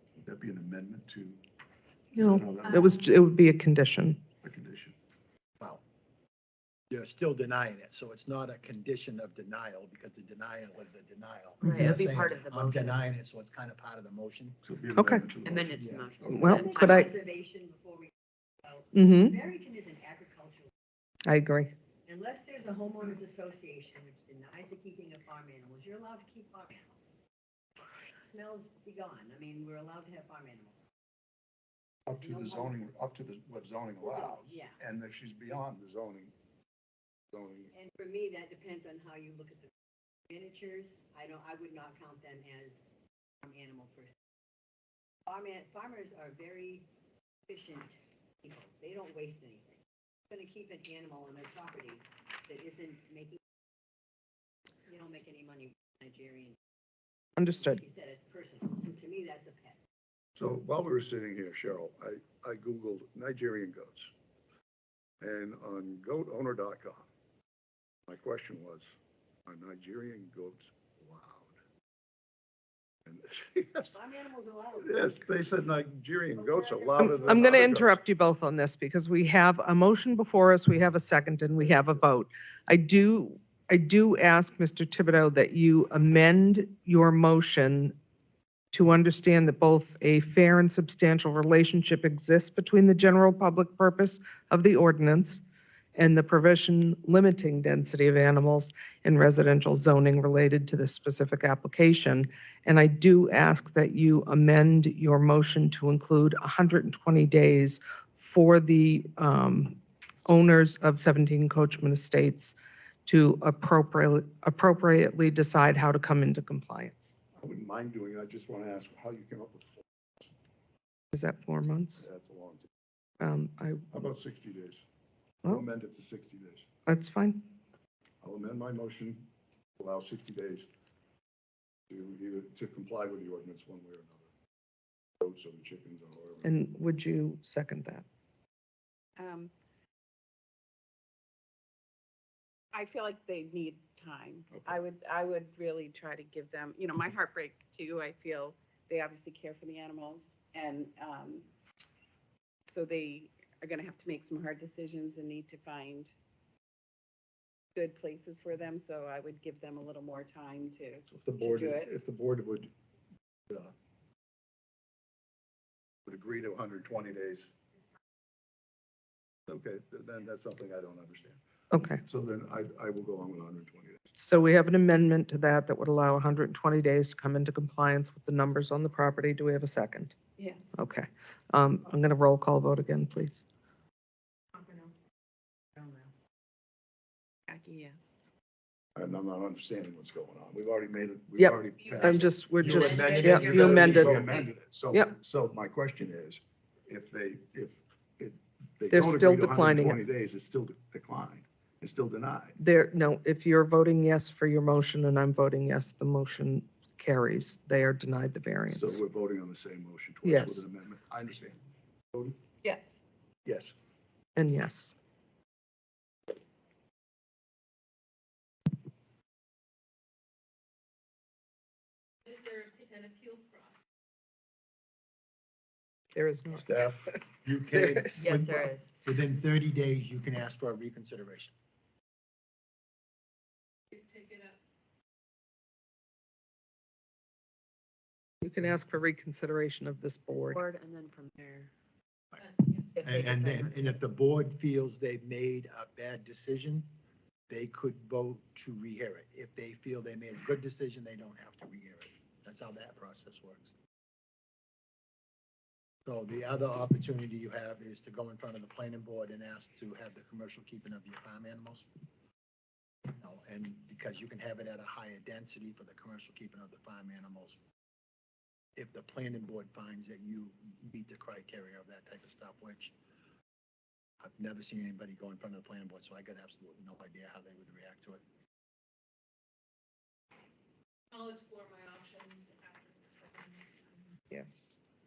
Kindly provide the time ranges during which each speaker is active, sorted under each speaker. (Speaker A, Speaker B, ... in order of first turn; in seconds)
Speaker A: 0.2-1.4, 2.2-3.0, 4.4-5.0, 14.6-16.5, 32.1-36.3, 37.3-37.7, 60.4-64.1, 65.2-67.1, 68.1-71.5, 73.0-74.0, 74.8-78.0, 117.4-120.3, 122.0-122.7, 123.9-124.8, 125.4-126.7, 128.2-130.7, 131.9-134.3, 135.2-136.5, 144.5-144.8, 161.1-162.7, 166.1-167.5, 169.5-171.4, 172.0-174.1, 188.9-202.6, 208.7-211.6, 213.4-213.7, 226.5-227.1
Speaker B: 2.1-4.2, 14.9-15.2, 16.3-17.1, 18.9-19.4, 21.2-21.7, 57.4-57.8, 77.0-88.0, 88.7-95.4, 96.0-117.1, 121.1-122.0, 123.2-123.8, 126.9-127.4, 136.4-138.0, 171.7-172.0, 174.2-180.1, 180.8-183.4, 191.4-194.3, 198.9-200.0, 202.6-209.0, 210.2-210.6, 214.3-214.9, 226.1-226.7, 227.8-228.2, 238.4-240.6, 284.3-284.8
Speaker C: 6.9-14.6, 15.7-16.1, 227.4-231.5, 242.9-246.9, 247.5-253.7, 256.1-261.9, 263.1-267.6, 268.8-272.9, 274.2-278.2
Speaker D: 11.6-12.9, 15.4-17.0, 228.2-228.8, 240.3-241.7, 242.9-243.5
Speaker E: 16.4-18.1, 18.6-20.7, 22.1-27.2, 28.2-30.9, 32.1-32.7, 34.0-34.8, 37.7-39.7, 40.3-44.1, 45.2-46.9, 47.5-49.8, 50.3-53.4, 54.9-56.6, 57.5-59.8, 73.9-75.2, 76.4-77.6
Speaker F: 139.2-139.5, 142.7-151.4, 152.7-156.1, 157.7-161.9, 180.4-180.8, 184.6-184.9, 187.5-188.2, 192.5-194.4, 212.6-213.0
Speaker G: 222.2-223.8, 233.9-234.6, 242.6-242.8, 281.1-284.1